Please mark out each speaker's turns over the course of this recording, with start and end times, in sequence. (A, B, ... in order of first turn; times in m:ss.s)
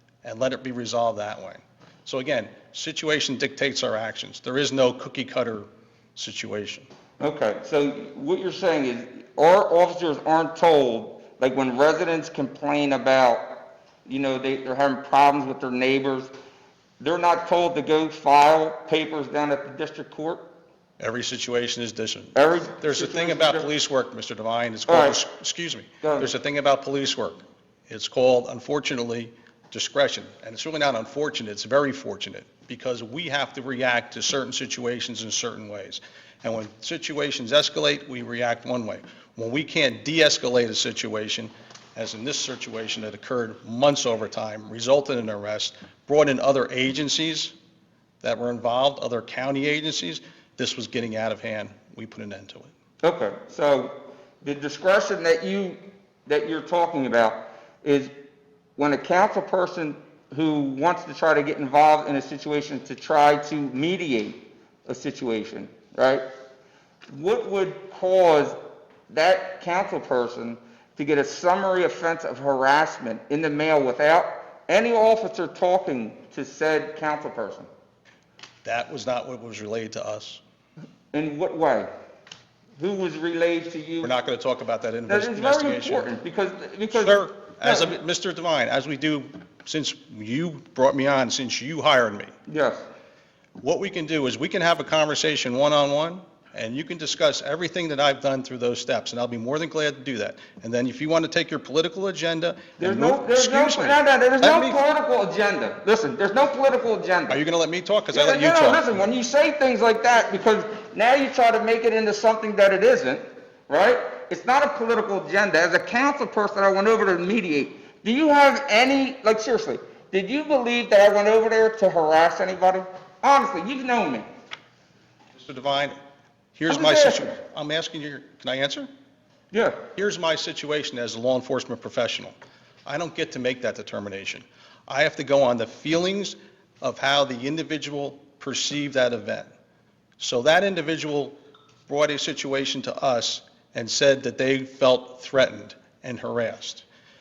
0:00.2-0:06.9 A
0:07.2-0:16.3 B
0:17.0-0:20.4 B
0:21.0-0:47.5 A
0:22.4-0:23.7 B
0:24.9-0:25.2 B
0:26.0-0:26.3 B
0:48.2-0:52.7 A
0:53.0-0:58.1 B
0:58.8-1:06.2 B
1:07.1-1:08.6 B
1:09.1-1:17.7 B
1:18.6-1:20.4 A
1:21.1-1:21.9 B
1:22.8-1:24.1 B
1:24.0-1:26.1 A
1:25.1-1:27.9 B
1:26.9-1:32.3 A
1:32.5-1:32.8 B
1:33.6-1:44.8 A
1:42.8-1:47.4 B
1:47.3-1:48.9 A
1:48.1-2:04.3 B
2:05.4-2:06.0 A
2:06.6-2:08.9 A
2:06.7-2:07.3 B
2:09.5-2:09.8 B
2:10.0-2:19.5 A
2:20.2-2:21.4 A
2:21.9-2:26.8 A